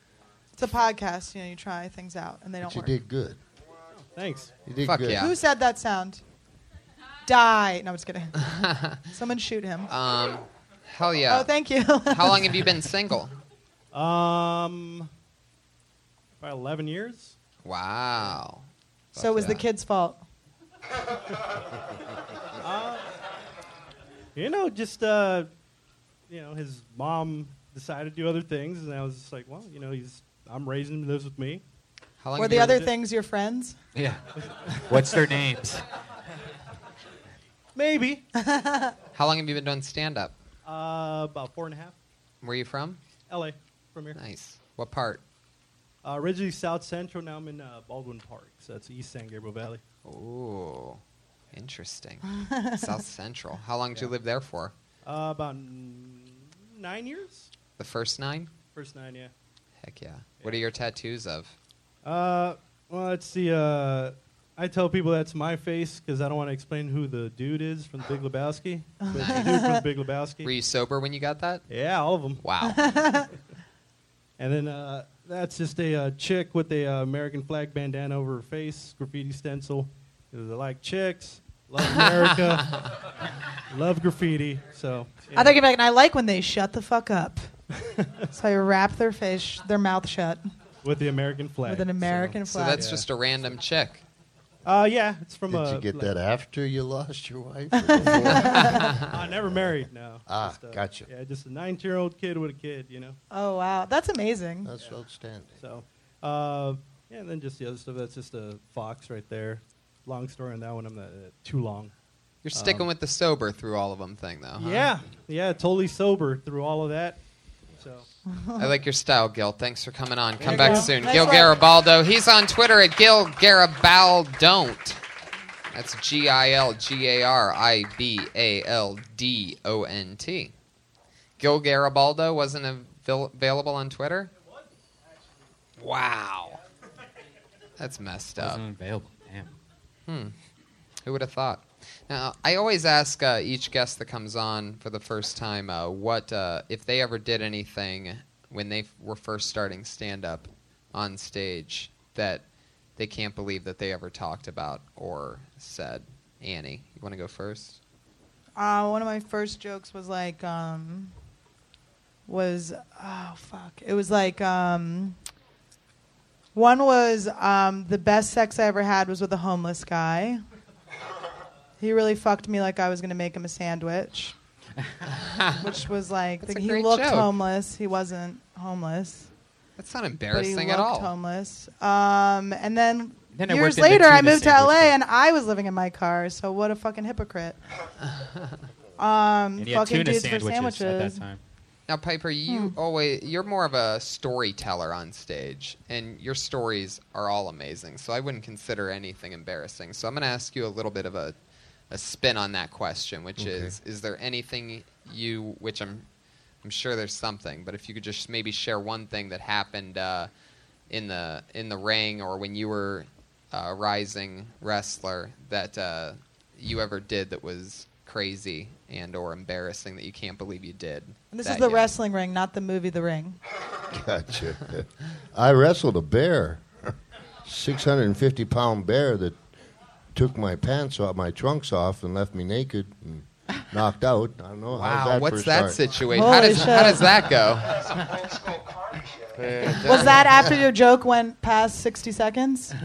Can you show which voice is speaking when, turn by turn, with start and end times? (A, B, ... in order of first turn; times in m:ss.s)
0:00.6-0:03.0 A
0:02.6-0:03.4 B
0:04.0-0:04.5 C
0:04.7-0:05.3 B
0:04.8-0:05.3 D
0:05.2-0:06.2 A
0:07.3-0:08.4 A
0:08.4-0:09.0 D
0:09.1-0:09.9 A
0:09.9-0:11.5 D
0:11.3-0:12.6 A
0:12.1-0:13.3 D
0:13.9-0:15.1 C
0:16.4-0:17.4 C
0:17.6-0:19.6 D
0:19.2-0:20.2 A
0:22.6-0:23.0 C
0:24.4-0:25.5 C
0:26.3-0:31.6 C
0:32.2-0:32.8 D
0:32.4-0:33.8 A
0:32.4-0:32.9 C
0:34.0-0:35.8 E
0:34.4-0:35.2 C
0:37.8-0:38.2 C
0:38.4-0:38.9 A
0:39.2-0:40.4 D
0:40.6-0:42.0 C
0:42.4-0:43.0 D
0:43.3-0:44.2 C
0:44.2-0:45.2 D
0:46.0-0:49.8 C
0:50.0-0:51.0 D
0:51.5-0:54.7 D
0:52.3-0:52.9 A
0:55.0-0:57.5 C
0:57.8-0:58.5 D
0:58.8-0:59.3 C
0:59.8-1:01.5 D
1:02.0-1:10.5 C
1:09.0-1:09.8 A
1:09.1-1:09.5 D
1:10.4-1:11.6 D
1:11.7-1:12.4 C
1:12.4-1:13.0 D
1:12.7-1:13.3 A
1:14.4-1:22.8 C
1:21.9-1:22.2 D
1:23.7-1:25.6 C
1:25.3-1:27.5 A
1:27.8-1:28.3 C
1:28.3-1:30.5 A
1:30.8-1:33.1 C
1:31.6-1:32.9 A
1:32.5-1:34.0 D
1:34.6-1:36.1 C
1:35.5-1:41.1 B
1:37.8-1:38.8 A
1:38.7-1:39.0 D
1:39.1-1:43.2 C
1:43.3-1:44.7 A
1:44.6-1:45.6 B
1:45.6-1:51.9 C
1:52.4-1:54.9 D
1:52.5-1:52.9 C
1:54.6-1:57.2 C
1:57.8-1:58.1 C
1:58.3-1:58.7 A
1:58.6-2:05.0 D
2:00.4-2:00.9 C
2:00.4-2:01.5 A
2:05.7-2:10.5 D
2:11.4-2:14.3 D
2:15.8-2:16.6 D
2:17.8-2:18.6 D
2:18.4-2:19.5 E
2:20.1-2:20.4 D
2:21.0-2:32.4 D
2:33.0-2:37.8 D
2:38.6-2:41.1 A
2:42.3-2:45.2 A
2:46.6-2:50.4 A
2:51.8-2:54.3 A
2:55.2-2:55.6 D
2:55.6-2:59.3 A
2:56.4-2:57.3 D
2:59.8-3:01.1 D
3:00.3-3:07.6 A
3:03.4-3:05.0 E
3:09.0-3:11.2 A
3:09.6-3:11.4 E
3:11.9-3:21.4 D
3:12.5-3:12.7 A
3:21.9-3:26.0 D
3:23.4-3:23.8 B
3:26.6-3:30.3 D
3:30.9-3:41.9 D
3:41.3-3:43.4 A
3:43.9-3:46.9 B
3:47.4-3:49.4 B
3:50.1-3:55.8 B
3:54.7-3:57.8 D
3:56.1-3:57.0 A
3:57.6-3:59.8 F
3:59.4-4:00.4 B
3:59.8-4:02.7 A